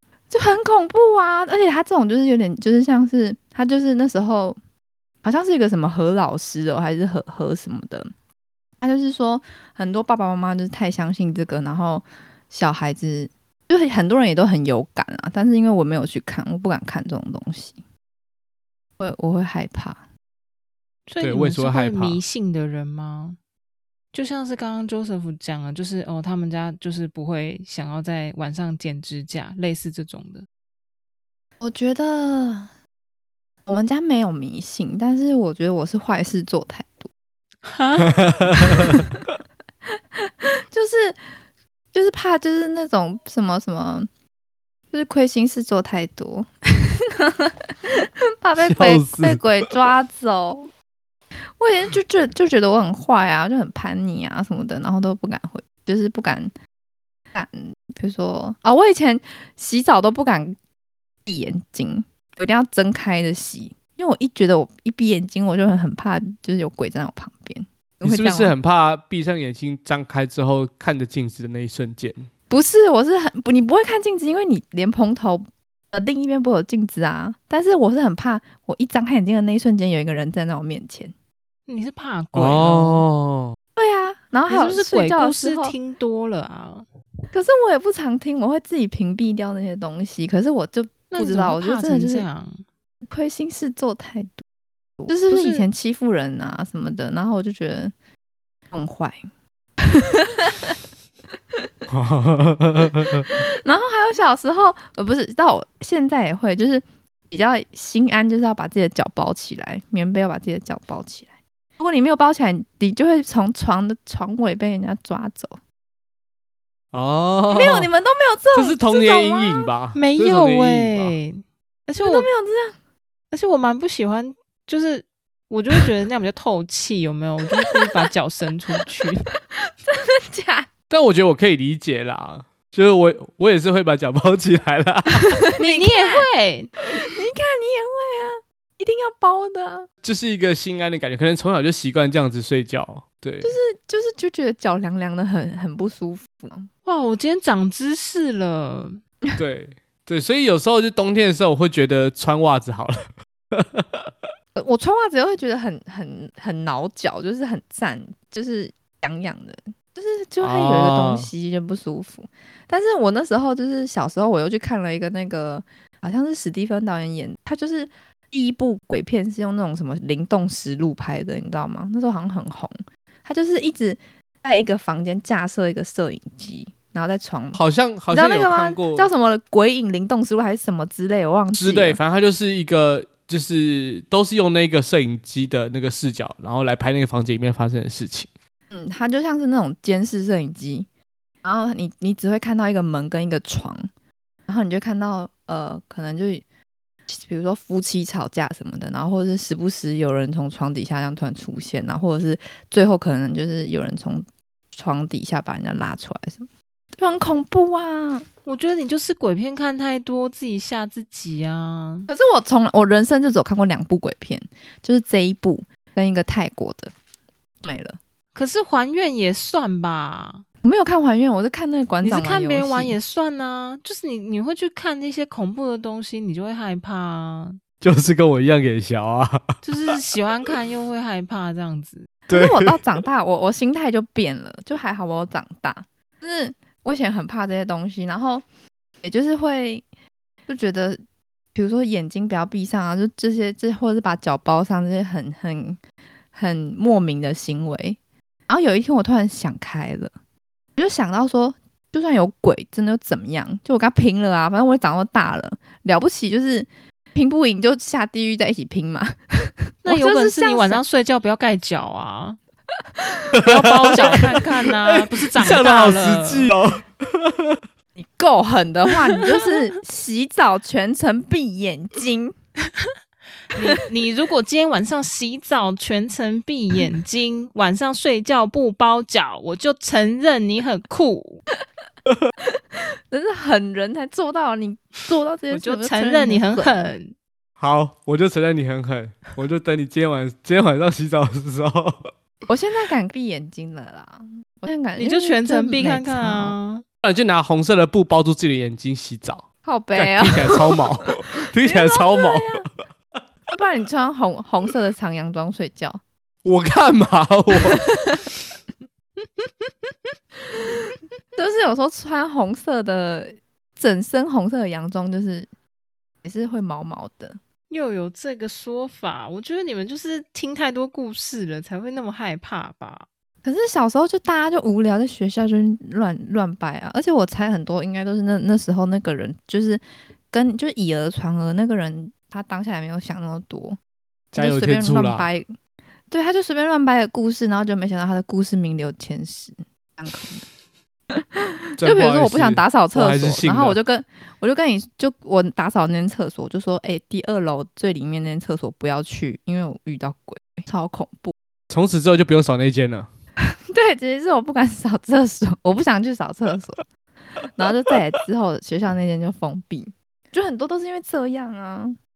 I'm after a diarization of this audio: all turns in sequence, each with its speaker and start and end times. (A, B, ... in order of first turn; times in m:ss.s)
0:00.3-0:04.6 A
0:05.2-0:08.1 A
0:08.8-0:17.8 A
0:19.0-0:20.0 A
0:21.1-0:23.4 B
0:21.2-0:22.2 C
0:24.1-0:30.5 B
0:31.6-0:32.7 A
0:33.7-0:37.1 A
0:37.6-0:38.9 B
0:38.2-0:39.0 C
0:40.2-0:41.2 A
0:41.9-0:44.1 A
0:44.9-0:50.7 A
0:48.6-0:49.5 C
0:51.6-0:56.5 A
0:57.3-1:00.6 A
1:01.3-1:08.6 A
1:08.0-1:12.3 C
1:12.5-1:21.1 A
1:21.7-1:23.1 B
1:22.4-1:23.6 C
1:23.8-1:25.8 A
1:24.5-1:26.9 B
1:27.3-1:32.3 A
1:31.1-1:32.6 B
1:33.1-1:34.4 A
1:35.1-1:37.9 A
1:35.3-1:35.7 B
1:38.7-1:39.2 A
1:39.8-1:40.8 A
1:41.9-1:43.3 C
1:43.0-1:55.6 A
1:56.9-1:57.9 C
1:57.5-1:59.7 A
1:58.5-2:01.2 C
2:00.0-2:02.3 B
2:02.0-2:02.8 A
2:03.3-2:09.3 B
2:07.6-2:08.0 A
2:09.6-2:10.7 A
2:10.9-2:15.4 C
2:15.1-2:16.3 A
2:15.6-2:16.7 B
2:16.8-2:19.9 A
2:20.0-2:23.5 C
2:23.4-2:26.7 A
2:26.8-2:29.0 B
2:29.4-2:34.3 C
2:34.6-3:02.0 A
2:40.4-2:41.3 C
2:57.6-2:59.1 C
3:01.5-3:08.3 C
3:08.7-3:10.9 A
3:11.4-3:13.9 A
3:14.5-3:16.4 A
3:17.1-3:28.3 A
3:28.4-3:32.1 B
3:32.1-3:36.9 A
3:37.6-3:38.0 A
3:38.4-3:40.4 B
3:40.6-3:43.0 A
3:42.0-3:47.6 B
3:47.8-3:49.6 C
3:49.6-3:52.1 B
3:52.3-3:52.8 C
3:52.3-3:58.4 A
3:59.0-3:59.8 A
4:00.5-4:01.0 A
4:01.5-4:05.8 A
4:06.3-4:10.1 A
4:10.8-4:20.8 A
4:19.8-4:22.4 B
4:23.0-4:23.4 A
4:23.3-4:27.6 C
4:23.4-4:26.5 B
4:28.0-4:32.4 A
4:29.2-4:29.5 B
4:33.5-4:41.4 B
4:42.5-4:46.8 A
4:45.5-4:47.2 B
4:47.6-4:52.1 C
4:52.5-4:56.6 A
4:55.0-4:56.8 B
4:57.0-5:02.7 C
4:59.6-5:02.7 A
5:03.5-5:06.0 A
5:06.4-5:07.8 C
5:07.7-5:08.2 A
5:09.4-5:09.9 B
5:10.5-5:15.5 A
5:16.2-5:17.4 A
5:17.7-5:23.1 B
5:23.4-5:33.8 A
5:34.3-5:35.5 A
5:34.4-5:35.3 C
5:36.1-5:40.5 A
5:41.1-5:51.3 A
5:41.8-5:43.8 C
5:51.7-5:53.1 C
5:53.4-5:56.8 A
5:57.4-6:02.0 A